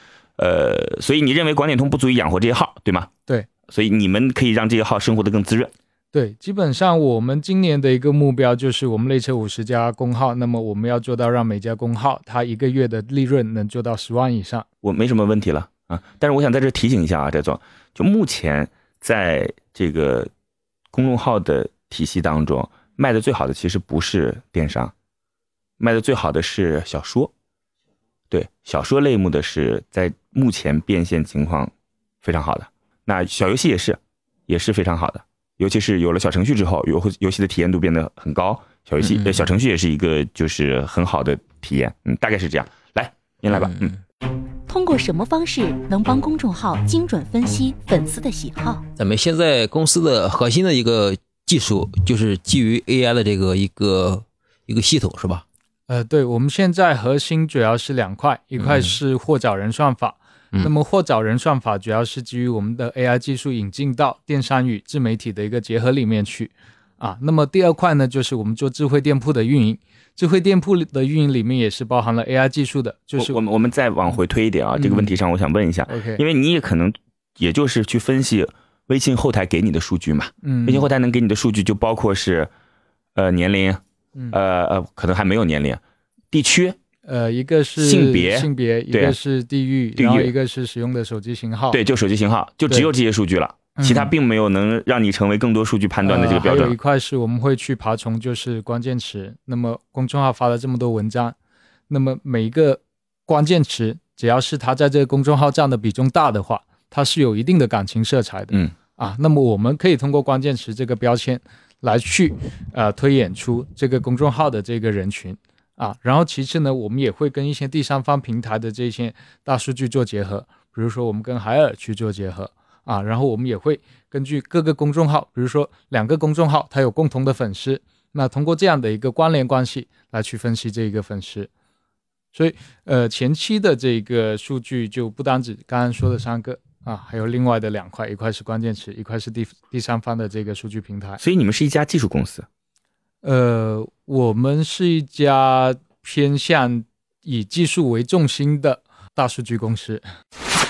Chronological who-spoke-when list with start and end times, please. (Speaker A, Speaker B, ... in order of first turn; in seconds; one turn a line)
Speaker A: 0.4-3.1
Speaker A: 3.7-5.7
Speaker B: 6.1-14.7
Speaker A: 14.8-20.3
Speaker A: 20.9-24.9
Speaker A: 25.8-27.3
Speaker A: 28.3-31.7
Speaker A: 32.2-43.9
Speaker C: 39.0-39.5
Speaker C: 43.5-43.9
Speaker D: 44.7-48.8
Speaker C: 49.0-55.4
Speaker B: 55.9-73.4
Speaker C: 58.6-58.9
Speaker A: 73.2-82.5
Speaker B: 74.8-75.2
Speaker B: 75.9-76.2
Speaker B: 80.4-80.9
Speaker A: 83.2-85.8
Speaker A: 86.3-86.8
Speaker B: 87.0-91.8
Speaker A: 87.8-89.2
Speaker A: 90.0-90.3
Speaker A: 91.7-96.7
Speaker B: 93.8-94.1
Speaker B: 96.0-101.3
Speaker B: 101.9-131.5
Speaker B: 132.3-141.2
Speaker A: 141.2-142.4
Speaker B: 143.2-150.0